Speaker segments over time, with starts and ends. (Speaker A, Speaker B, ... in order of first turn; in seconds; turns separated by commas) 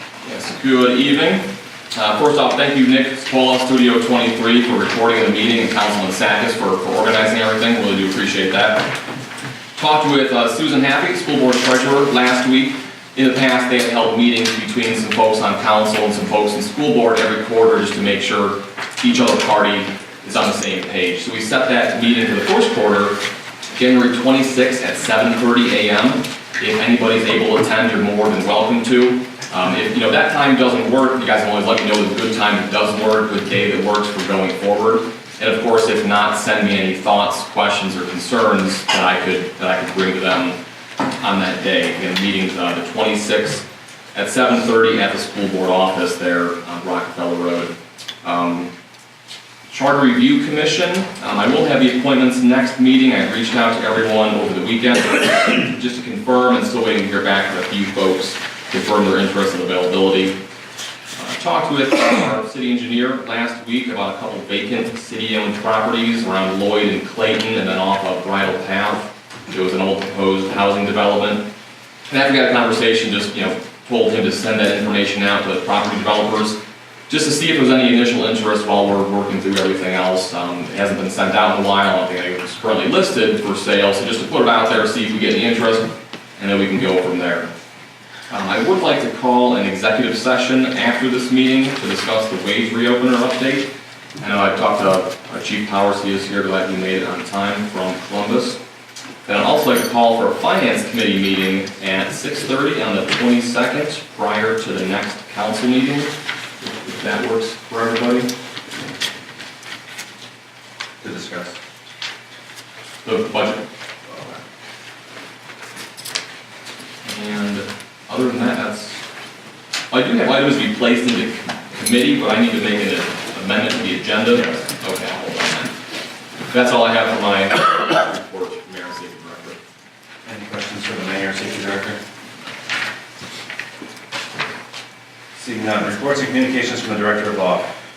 Speaker A: 0.2-8.9, Speaker A: 9.8-23.2, Speaker A: 23.7-40.6, Speaker A: 41.2-48.7, Speaker A: 49.7-60.4, Speaker A: 61.1-71.5, Speaker A: 72.1-87.5, Speaker A: 88.3-98.6, Speaker A: 99.2-106.1, Speaker A: 106.6-108.3, Speaker B: 111.0-111.6, Speaker A: 113.0-113.6, Speaker A: 117.0-119.0, Speaker A: 119.9-125.7, Speaker B: 124.3-124.6, Speaker A: 126.5-129.6, Speaker B: 130.2-132.0, Speaker B: 135.3-137.7